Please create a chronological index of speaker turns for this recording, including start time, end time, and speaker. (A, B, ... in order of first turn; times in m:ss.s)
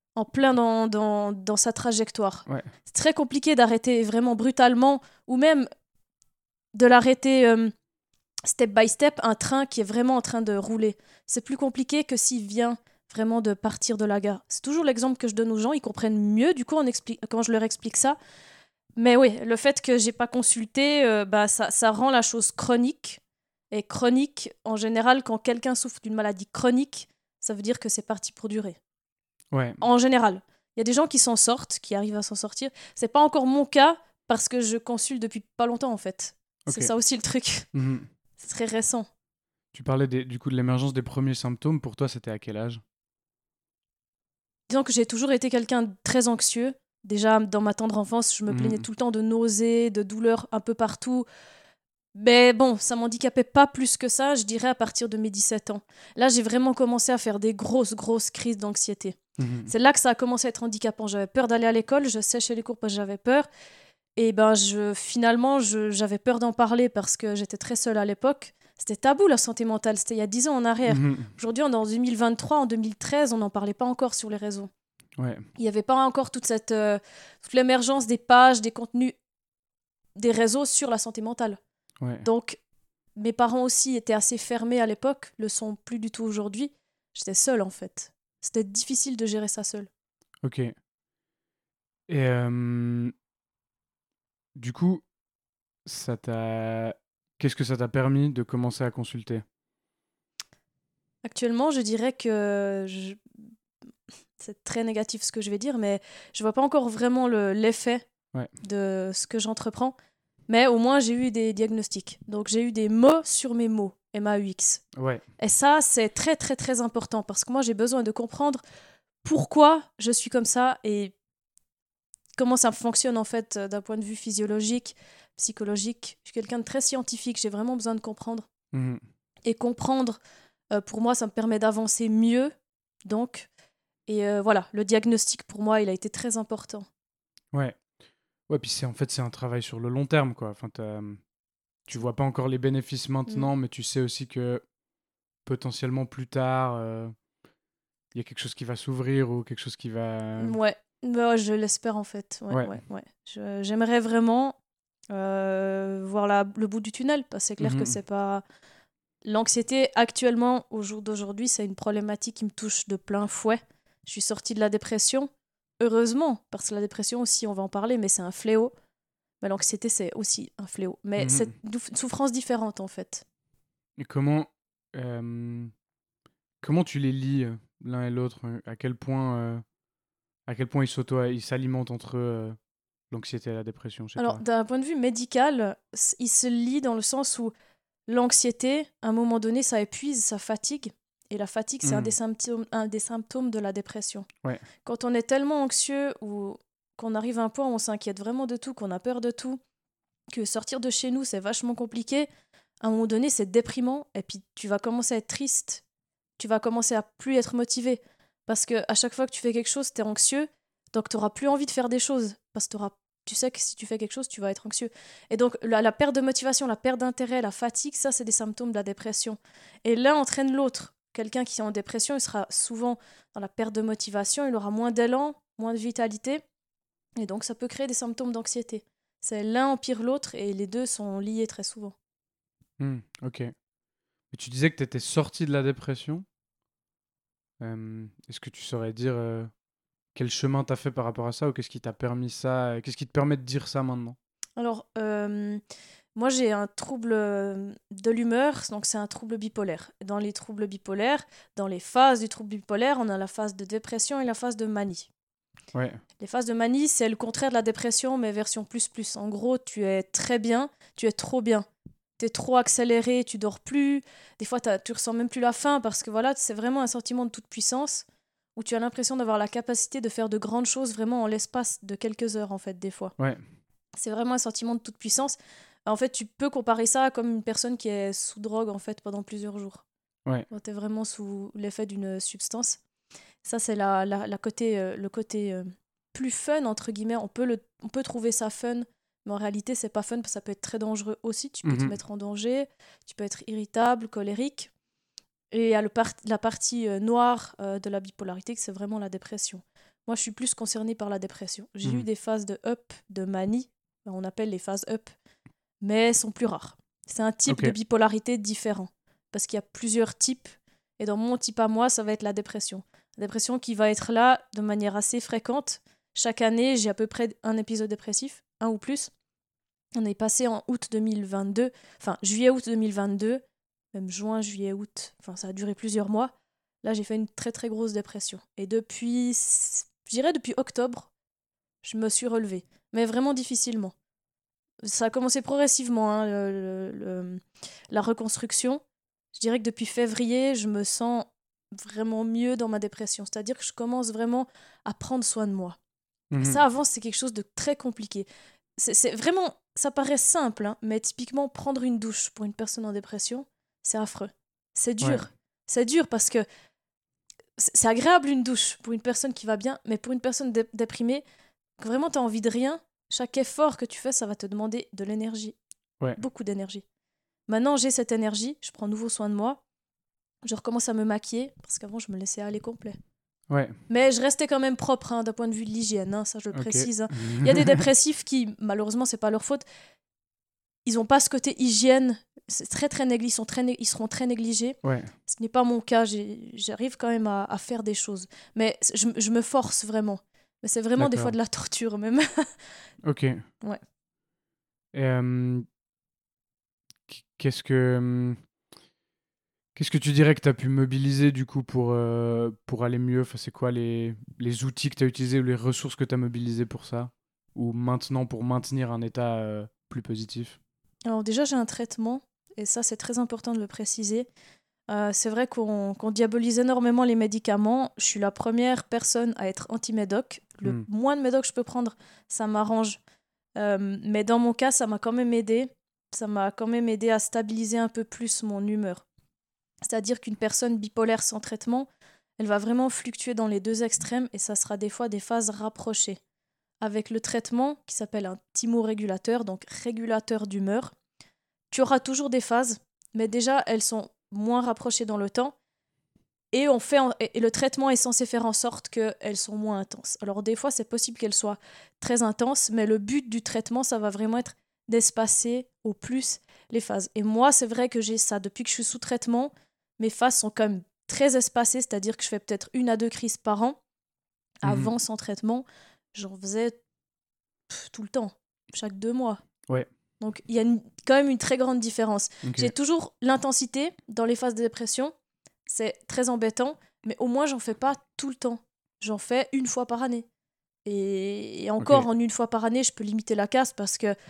0:00.2-0:05.7 A
0:06.7-0:07.7 A
0:08.4-0:18.2 A
0:19.0-0:28.8 A
0:29.5-0:29.8 B
0:29.8-0:37.7 A
0:37.7-0:38.1 B
0:38.4-0:39.1 A
0:39.7-0:42.8 B
0:44.7-0:51.2 A
0:48.5-0:48.8 B
0:52.1-1:03.5 A
0:59.4-0:59.7 B
1:04.2-1:14.7 A
1:10.9-1:11.3 B
1:15.2-1:15.4 B
1:15.6-1:19.1 A
1:20.2-1:21.6 A
1:22.2-1:22.6 A
1:23.2-1:29.9 A
1:30.4-1:30.7 B
1:32.1-1:33.1 B
1:34.5-1:35.0 B
1:35.8-1:39.4 B
1:41.2-1:43.3 A
1:44.4-1:48.0 A
1:48.6-1:49.9 A
1:50.5-1:54.8 A
1:55.0-1:55.2 B
1:55.4-1:58.6 A
1:59.2-2:01.1 A
2:02.4-2:08.5 A
2:08.7-2:09.0 B
2:09.4-2:10.2 A
2:10.7-2:12.5 A
2:13.0-2:13.5 A
2:14.1-2:16.9 A
2:17.5-2:17.8 B
2:18.5-2:21.2 B
2:21.9-2:24.6 B
2:25.4-2:27.1 B
2:28.1-2:30.6 B
2:30.4-2:34.6 A
2:32.5-2:32.8 B
2:35.1-2:38.4 A
2:37.6-2:37.9 B
2:39.2-2:48.7 A
2:49.4-2:53.2 A
2:51.2-2:51.5 B
2:54.0-2:55.7 B
2:56.6-2:59.6 B
3:00.5-3:02.6 B
3:03.1-3:04.4 B
3:04.2-3:07.5 A
3:08.1-3:14.3 A
3:11.8-3:12.1 B
3:14.8-3:19.6 A
3:20.3-3:22.3 A
3:22.8-3:25.8 A
3:26.4-3:46.4 A
3:47.2-3:51.9 A
3:52.8-3:53.5 B
3:54.3-3:56.2 B
3:57.6-3:59.5 B
4:00.1-4:04.2 B
4:04.6-4:05.6 A
4:06.2-4:15.1 A
4:15.7-4:16.0 B
4:16.2-4:21.6 A
4:22.2-4:28.0 A
4:28.6-4:33.1 A
4:33.2-4:33.4 B
4:34.0-4:35.4 A
4:35.9-4:39.8 A
4:40.5-4:42.8 A
4:43.4-4:54.7 A
4:51.6-4:51.9 B
4:55.5-5:05.1 A
5:05.8-5:19.1 A
5:07.5-5:07.7 B
5:20.0-5:23.4 A
5:23.9-5:26.3 A
5:26.8-5:31.1 A
5:31.8-5:33.9 A
5:34.8-5:38.8 A
5:39.3-5:45.8 A
5:46.3-5:46.6 B
5:46.4-5:48.3 A
5:48.8-5:56.4 A
5:57.6-6:01.2 A
6:01.8-6:05.6 A
6:06.2-6:06.8 A
6:07.5-6:09.6 A
6:10.4-6:13.0 A
6:13.5-6:13.8 B
6:13.9-6:19.6 A
6:16.5-6:17.8 B
6:20.8-6:32.5 A
6:24.8-6:25.1 B
6:31.0-6:31.3 B
6:33.0-6:33.4 B
6:34.9-6:35.6 B
6:37.1-6:38.4 B
6:39.7-6:50.6 B
6:51.0-6:54.3 A
6:54.9-7:03.0 A
7:03.6-7:09.0 A
7:09.8-7:11.9 A
7:12.4-7:16.2 A
7:16.8-7:20.9 A
7:21.7-7:25.5 A
7:26.5-7:43.8 A
7:44.6-7:46.8 A
7:44.6-7:44.9 B
7:47.7-7:49.4 A
7:50.2-7:55.1 A
7:52.4-7:52.7 B
7:55.7-8:00.2 A
8:00.8-8:04.1 A
8:01.8-8:02.1 B